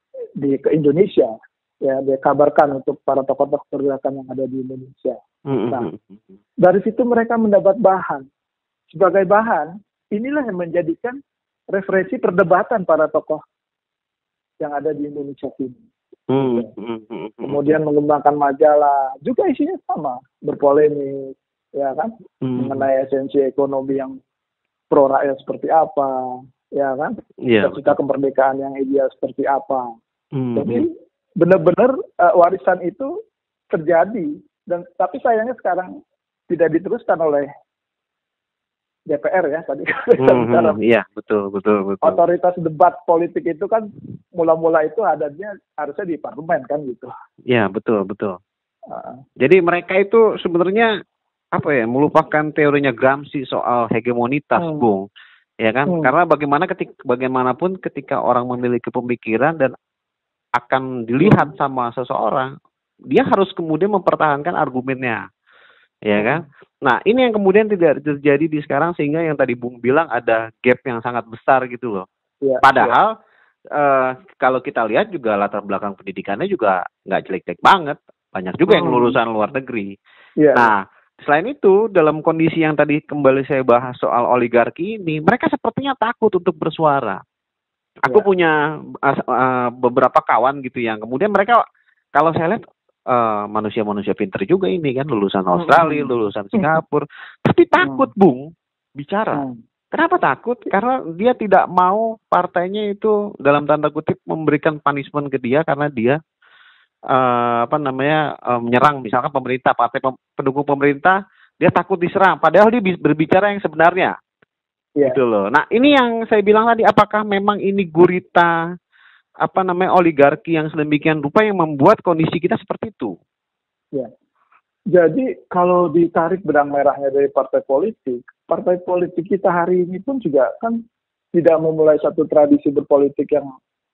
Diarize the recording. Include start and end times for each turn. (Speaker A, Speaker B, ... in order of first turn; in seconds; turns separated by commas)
Speaker A: 0.4-5.9, Speaker B: 5.5-6.1, Speaker A: 6.6-8.3, Speaker A: 8.9-11.2, Speaker A: 11.7-13.4, Speaker A: 14.6-15.8, Speaker B: 16.3-17.7, Speaker A: 16.4-16.7, Speaker A: 17.4-24.2, Speaker B: 22.4-22.8, Speaker A: 24.9-29.9, Speaker B: 27.4-27.9, Speaker B: 30.3-30.9, Speaker A: 30.6-33.1, Speaker A: 33.7-36.0, Speaker A: 36.5-37.5, Speaker A: 39.1-40.8, Speaker B: 40.2-42.2, Speaker A: 42.0-47.1, Speaker B: 47.5-48.4, Speaker A: 48.9-49.2, Speaker B: 49.4-50.9, Speaker B: 51.5-55.0, Speaker A: 54.6-54.8, Speaker B: 55.6-59.7, Speaker A: 55.9-56.1, Speaker B: 60.5-62.5, Speaker A: 61.2-61.5, Speaker B: 63.1-65.2, Speaker B: 66.0-72.0, Speaker A: 66.2-66.4, Speaker A: 72.4-73.0, Speaker B: 72.6-73.1, Speaker B: 73.7-79.9, Speaker A: 78.7-79.2, Speaker A: 80.4-80.7, Speaker B: 80.5-87.2, Speaker B: 88.0-91.6, Speaker B: 92.1-106.2, Speaker A: 95.5-96.8, Speaker A: 97.8-98.1, Speaker A: 99.3-99.6, Speaker B: 107.1-114.2, Speaker B: 115.0-118.5, Speaker B: 119.4-123.2, Speaker A: 124.9-130.8, Speaker A: 131.3-133.5